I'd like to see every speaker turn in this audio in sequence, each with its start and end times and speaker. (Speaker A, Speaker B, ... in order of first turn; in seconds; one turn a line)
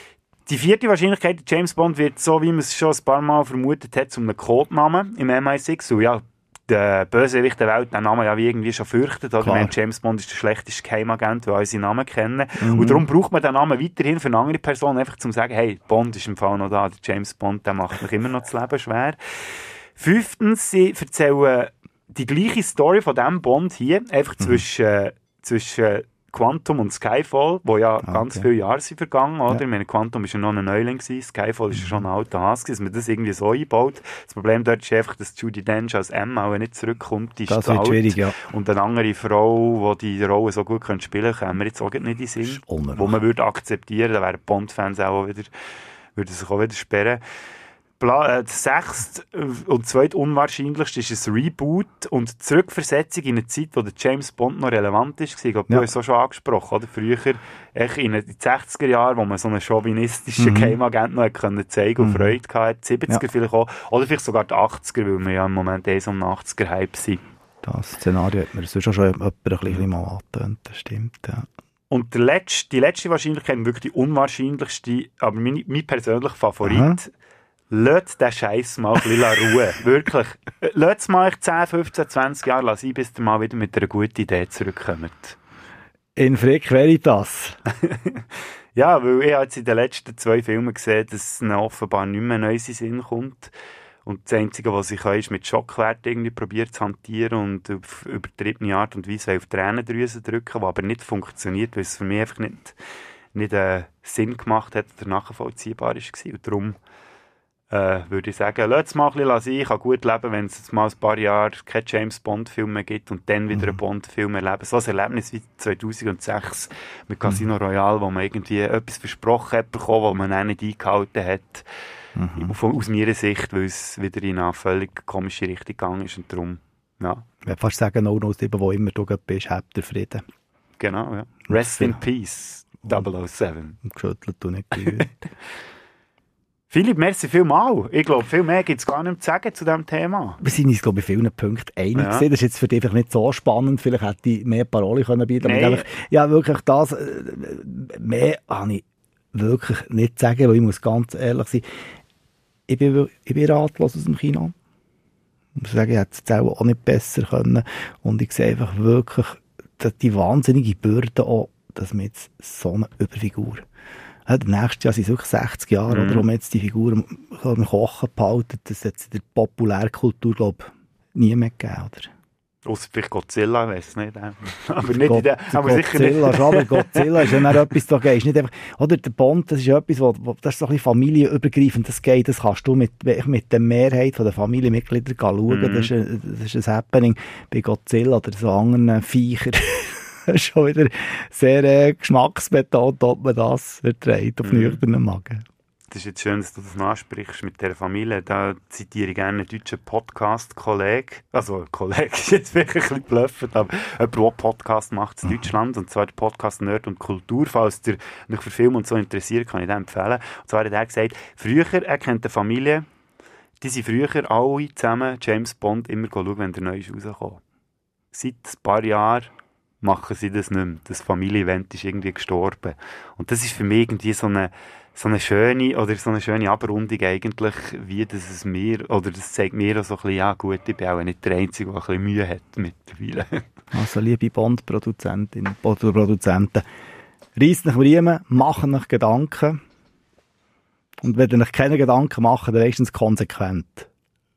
Speaker A: 0.5-45.5
Speaker B: 9.4-9.7
Speaker B: 12.6-13.0
Speaker B: 28.0-28.5
Speaker B: 31.7-32.0
Speaker B: 37.5-38.4
Speaker B: 42.4-43.2
Speaker A: 46.1-47.2
Speaker A: 48.0-67.2
Speaker B: 60.4-60.8
Speaker B: 62.0-62.3
Speaker B: 67.6-71.5
Speaker A: 71.9-77.1
Speaker B: 76.6-77.0
Speaker A: 77.7-85.4
Speaker B: 86.2-87.6
Speaker A: 87.8-88.2
Speaker A: 88.7-93.5
Speaker A: 94.0-102.8
Speaker A: 103.3-106.8
Speaker A: 107.7-121.6
Speaker B: 113.5-113.8
Speaker B: 122.2-122.5
Speaker A: 122.4-127.2
Speaker B: 127.4-130.2
Speaker A: 130.8-133.8
Speaker B: 131.5-132.0
Speaker B: 133.8-135.2
Speaker A: 136.7-140.4
Speaker B: 140.4-151.6
Speaker A: 141.9-142.2
Speaker A: 145.4-145.8
Speaker B: 152.7-154.5
Speaker B: 155.6-163.6
Speaker B: 164.2-172.1
Speaker A: 165.9-166.3
Speaker A: 172.6-177.5
Speaker B: 174.9-195.4
Speaker A: 185.5-185.9
Speaker A: 194.4-194.8
Speaker A: 195.9-212.8
Speaker A: 213.6-217.4
Speaker A: 218.1-219.3
Speaker A: 219.8-233.4
Speaker B: 233.7-236.6
Speaker B: 237.3-239.6
Speaker B: 241.0-243.9